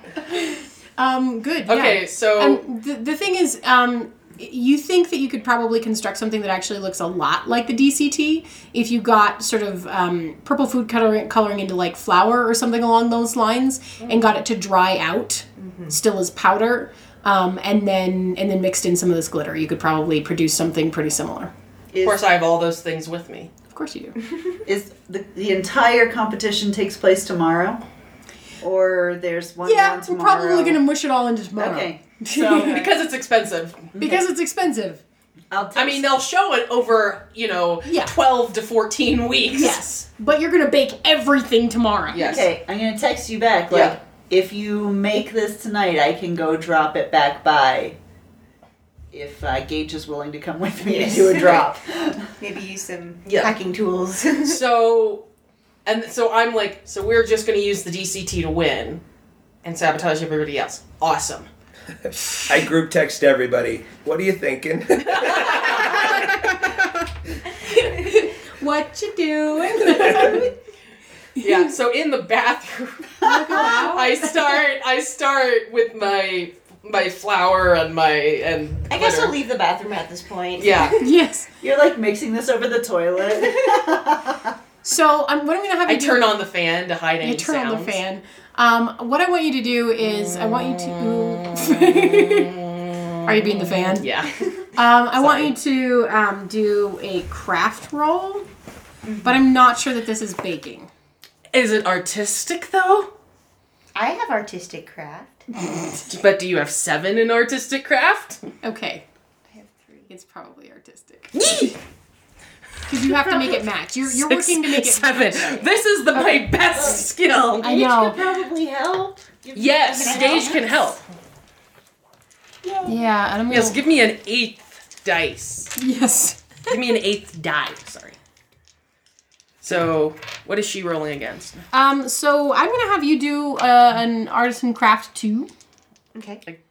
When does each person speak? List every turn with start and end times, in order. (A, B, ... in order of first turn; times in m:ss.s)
0:00.3-0:21.5 A
0:01.6-0:02.6 B
0:15.6-0:15.9 C
0:21.9-0:22.2 D
0:22.0-0:23.5 B
0:23.7-0:24.2 A
0:24.6-0:27.8 D
0:28.6-0:30.8 D
0:29.6-0:32.9 A
0:31.6-0:33.0 D
0:32.4-0:34.0 B
0:34.0-0:34.2 D
0:34.0-0:35.0 A
0:35.5-0:36.1 D
0:35.7-0:39.8 B
0:37.8-0:38.1 A
0:39.5-0:42.4 A
0:42.1-0:42.5 B
0:42.2-0:48.0 D
0:43.7-0:44.0 B
0:49.1-0:52.3 D
0:50.8-0:51.7 C
0:52.4-0:54.6 C
0:53.2-0:53.6 B
0:54.4-0:55.2 B
0:55.8-0:59.0 B
0:59.6-1:01.5 B
1:02.0-1:06.3 E
1:05.1-1:06.0 B
1:05.8-1:06.8 A
1:07.6-1:10.5 A
1:09.8-1:10.1 E
1:10.1-1:10.5 D
1:11.4-1:19.4 B
1:13.2-1:14.5 A
1:13.2-1:14.0 D
1:18.9-1:21.0 C
1:20.6-1:21.0 B
1:21.0-1:21.5 A
1:21.6-1:24.6 D
1:24.8-1:26.4 A
1:25.9-1:28.0 B
1:27.2-1:32.6 A
1:31.0-1:34.5 B
1:33.2-1:34.1 A
1:34.8-1:38.4 A
1:35.1-1:35.5 B
1:39.0-1:39.4 C
1:39.2-1:40.9 A
1:41.5-1:43.1 B
1:43.9-1:45.5 C
1:46.1-1:48.4 B
1:48.6-1:49.0 A
1:49.5-1:50.1 C
1:50.1-1:51.7 A
1:51.3-1:51.7 B
1:52.9-1:56.8 A
1:53.0-1:57.8 B
1:57.6-2:00.8 D
1:57.6-1:58.2 A
1:59.5-2:01.0 B
1:59.9-2:00.6 C
2:02.8-2:03.8 A
2:03.5-2:05.7 B
2:05.8-2:06.8 A
2:06.7-2:08.2 B
2:09.6-2:11.6 B
2:11.7-2:15.5 A
2:16.1-2:16.4 C